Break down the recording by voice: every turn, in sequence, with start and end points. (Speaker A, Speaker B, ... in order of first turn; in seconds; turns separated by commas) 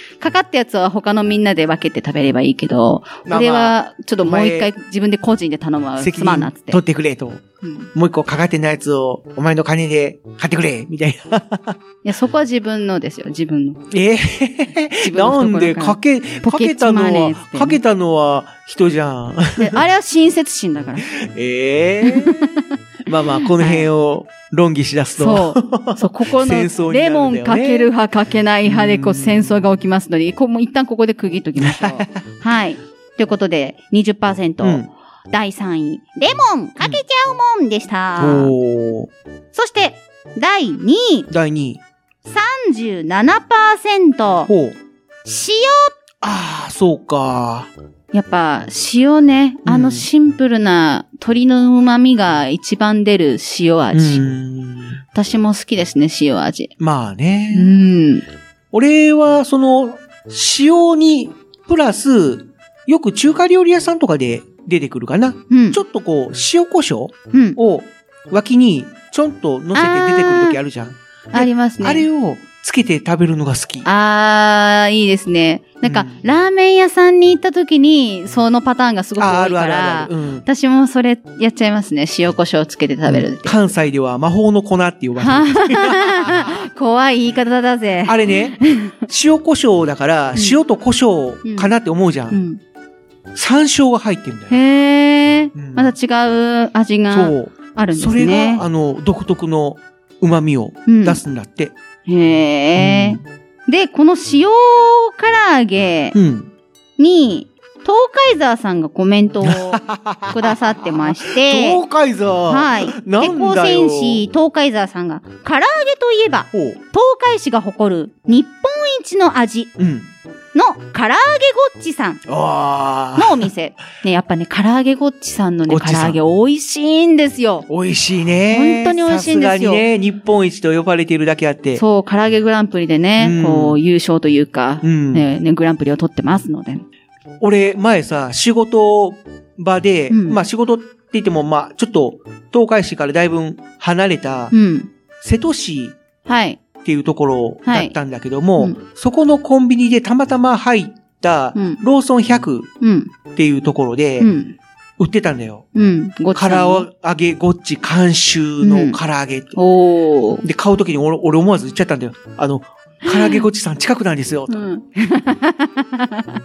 Speaker A: 0.2-6.8, Speaker B: 3.2-4.7, Speaker B: 6.0-7.4, Speaker A: 7.6-7.9, Speaker B: 7.9-11.8, Speaker A: 12.0-13.8, Speaker B: 13.9-19.8, Speaker A: 15.0-17.8, Speaker A: 19.6-21.1, Speaker B: 21.1-22.5, Speaker A: 22.1-22.7, Speaker B: 23.1-27.9, Speaker A: 23.4-23.9, Speaker A: 25.2-38.5, Speaker B: 28.6-29.6, Speaker B: 31.6-32.2, Speaker B: 34.6-34.9, Speaker B: 38.2-39.1, Speaker A: 39.5-41.3, Speaker B: 41.3-41.8, Speaker A: 42.2-44.5, Speaker B: 44.5-44.8, Speaker A: 45.2-45.9, Speaker B: 46.2-47.7, Speaker A: 48.1-54.2, Speaker B: 49.6-50.1, Speaker B: 53.9-55.0, Speaker A: 55.1-56.7, Speaker B: 56.8-57.7, Speaker A: 57.5-58.2, Speaker B: 58.7-73.9, Speaker A: 65.5-65.8, Speaker A: 67.3-67.6, Speaker A: 69.7-70.6, Speaker A: 71.3-72.1, Speaker A: 73.8-83.6, Speaker B: 75.8-76.2, Speaker B: 79.2-80.4, Speaker B: 83.1-86.6, Speaker A: 85.2-89.0, Speaker B: 88.0-92.4, Speaker A: 91.4-91.7, Speaker A: 92.3-92.6, Speaker B: 93.3-94.6, Speaker A: 94.5-98.6, Speaker B: 95.5-95.9, Speaker B: 97.1-101.7, Speaker A: 100.9-101.2, Speaker A: 102.1-106.2, Speaker B: 102.8-103.2, Speaker B: 106.1-106.5, Speaker A: 107.0-111.8, Speaker B: 109.4-114.2, Speaker A: 112.5-119.7, Speaker B: 116.5-116.8, Speaker B: 119.8-120.1, Speaker A: 120.5-122.2, Speaker B: 122.3-123.5, Speaker A: 123.2-127.7, Speaker B: 125.7-126.2, Speaker B: 127.7-131.8, Speaker A: 128.5-129.8, Speaker A: 131.8-136.8, Speaker B: 133.2-133.8, Speaker B: 134.8-135.3, Speaker B: 137.4-144.5, Speaker A: 140.1-140.4, Speaker A: 144.5-144.9, Speaker B: 145.2-145.9, Speaker A: 146.3-146.6, Speaker B: 146.8-152.7, Speaker A: 147.7-147.9, Speaker A: 151.5-151.8, Speaker A: 152.8-153.1, Speaker B: 153.3-154.3, Speaker A: 154.2-154.5, Speaker B: 155.0-155.7, Speaker A: 155.7-156.9, Speaker B: 156.3-159.6, Speaker A: 158.6-159.0, Speaker A: 159.6-160.4, Speaker B: 160.4-164.6, Speaker A: 163.1-163.4, Speaker A: 164.5-166.2